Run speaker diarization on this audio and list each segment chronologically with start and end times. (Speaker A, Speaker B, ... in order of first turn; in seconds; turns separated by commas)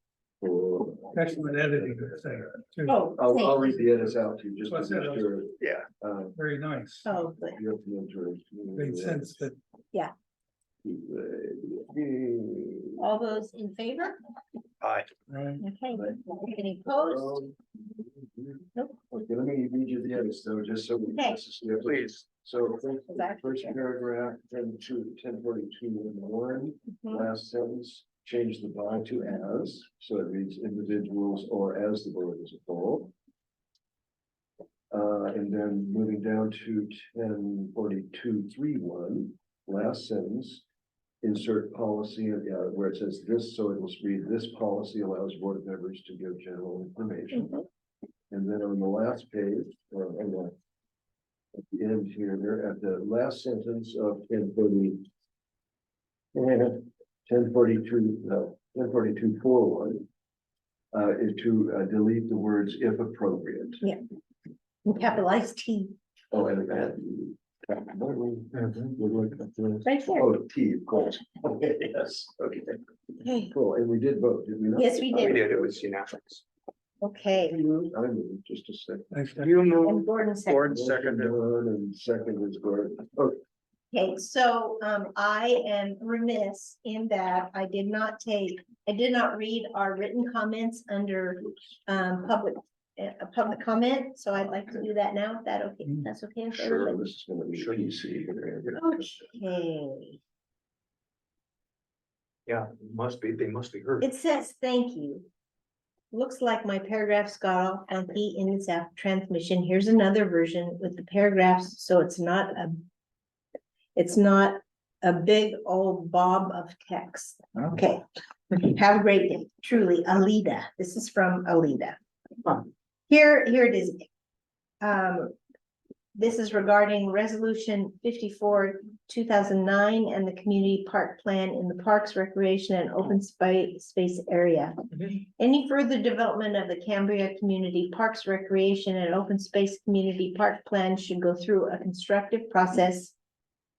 Speaker A: 0.4-6.4, Speaker B: 1.1-3.1, Speaker C: 2.9-3.8, Speaker B: 4.6-5.3, Speaker D: 5.6-5.8, Speaker B: 6.3-7.1, Speaker C: 7.1-7.6, Speaker A: 7.5-9.4, Speaker B: 8.8-9.6, Speaker A: 10.8-13.0, Speaker C: 13.0-14.2, Speaker D: 14.8-15.1, Speaker B: 15.3-15.6, Speaker C: 15.6-17.4, Speaker A: 15.9-16.2, Speaker A: 16.9-33.1, Speaker D: 21.8-22.2, Speaker C: 23.1-23.8, Speaker C: 27.0-27.3, Speaker A: 34.9-40.6, Speaker A: 41.2-47.5, Speaker C: 47.3-47.6, Speaker A: 48.3-50.5, Speaker A: 51.5-55.1, Speaker A: 56.3-60.1, Speaker A: 60.9-63.8, Speaker C: 64.8-65.9, Speaker A: 66.3-72.8, Speaker C: 69.8-70.3, Speaker C: 73.2-73.5, Speaker A: 73.5-75.5, Speaker C: 74.8-75.4, Speaker D: 75.1-76.4, Speaker C: 77.0-77.6, Speaker A: 77.3-79.1, Speaker B: 79.1-79.5, Speaker D: 79.4-81.3, Speaker C: 79.8-80.8, Speaker A: 80.7-83.4, Speaker C: 83.9-97.0, Speaker A: 96.5-99.0, Speaker C: 98.8-100.2, Speaker D: 102.5-104.0, Speaker C: 104.0-105.2, Speaker C: 106.1-112.8, Speaker C: 114.0-122.0, Speaker C: 123.1-124.0, Speaker C: 124.8-125.3, Speaker C: 126.2-143.2